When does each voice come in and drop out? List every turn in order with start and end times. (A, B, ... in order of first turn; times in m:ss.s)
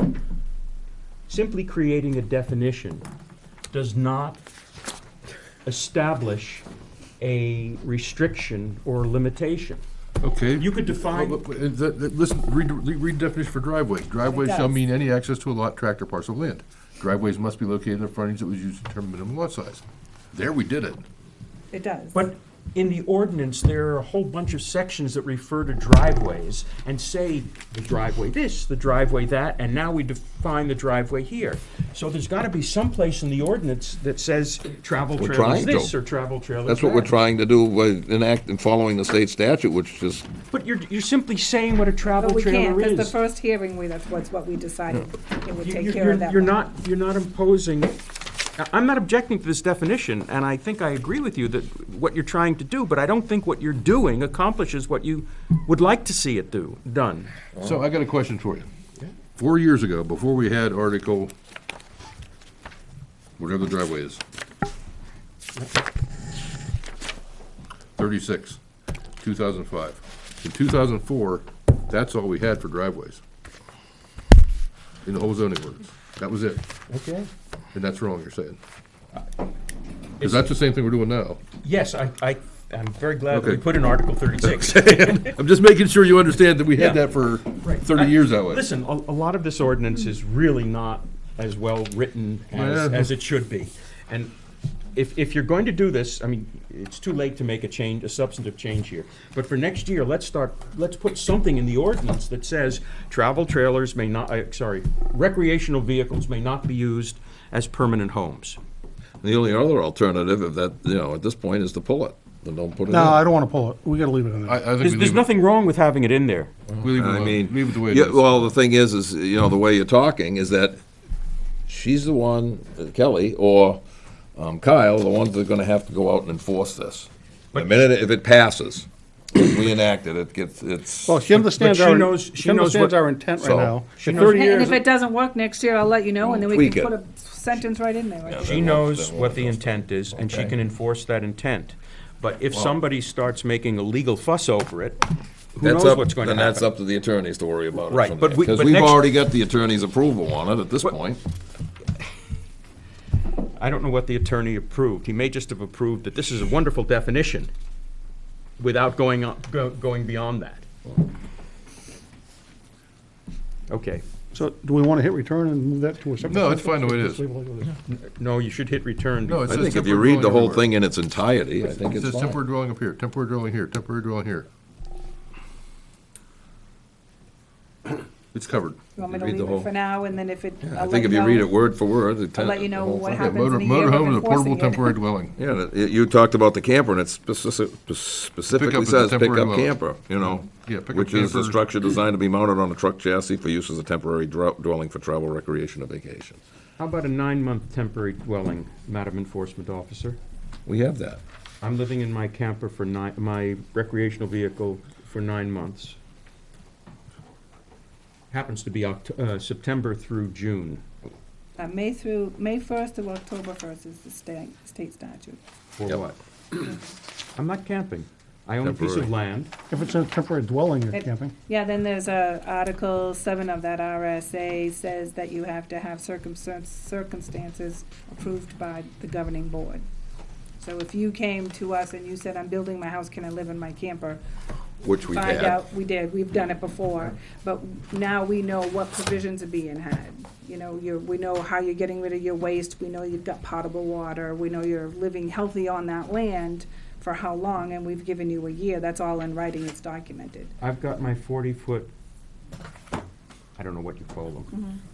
0:01.3-0:03.1 A
0:03.7-0:04.4 A
0:05.6-0:06.6 A
0:07.2-0:09.8 A
0:10.2-0:21.0 B
0:10.6-0:11.4 A
0:14.3-0:14.7 C
0:21.7-0:22.2 C
0:22.1-0:37.1 A
0:35.2-0:35.9 D
0:36.7-0:40.3 D
0:40.5-0:43.2 A
0:42.2-0:46.7 C
0:45.6-0:48.0 A
0:48.6-0:57.3 A
0:57.6-0:58.7 B
0:59.4-1:01.3 B
1:03.4-1:04.2 B
1:08.0-1:08.6 B
1:09.2-1:13.2 B
1:15.0-1:16.6 B
1:16.9-1:17.3 A
1:17.7-1:18.6 B
1:20.2-1:20.5 A
1:20.2-1:21.4 B
1:21.6-1:25.3 A
1:23.3-1:23.6 B
1:24.5-1:28.6 B
1:27.6-1:34.3 A
1:32.5-1:33.1 B
1:35.0-1:48.6 A
1:49.2-1:53.2 D
1:52.9-1:54.6 E
1:54.5-1:55.3 B
1:54.8-1:56.5 A
1:56.8-1:58.5 B
1:56.9-2:00.8 D
2:01.7-2:03.8 D
2:04.4-2:11.2 D
2:11.0-2:14.7 E
2:11.3-2:13.0 A
2:13.4-2:13.8 D
2:14.0-2:14.8 A
2:14.1-2:18.6 C
2:16.2-2:16.9 D
2:18.3-2:20.5 D
2:18.4-2:26.7 A
2:25.6-2:31.2 D
2:27.9-2:29.1 A
2:33.6-2:37.5 A
2:38.6-2:40.6 A
2:43.7-2:44.0 A
2:44.3-2:47.8 E
2:46.2-2:47.2 B
2:47.9-2:49.8 A
2:49.3-2:50.7 B
2:49.5-2:52.4 D
2:51.8-2:54.5 B
2:58.3-2:58.8 B
2:59.0-3:01.6 C
2:59.1-2:59.7 D
3:00.6-3:03.3 D
3:02.3-3:05.0 C
3:03.1-3:05.4 B
3:05.4-3:16.4 D
3:08.5-3:11.6 B
3:16.8-3:20.2 A
3:20.7-3:21.2 D
3:21.6-3:26.0 A
3:28.3-3:30.8 A
3:31.6-3:35.4 C
3:35.8-3:36.7 A
3:37.4-3:39.5 A
3:38.6-3:39.1 D
3:39.7-3:41.4 E
3:40.9-3:49.8 C
3:50.6-3:54.2 C
3:54.8-3:55.6 D
3:55.1-4:10.5 C
4:10.6-4:11.9 A
4:13.6-4:14.6 A
4:14.5-4:14.8 C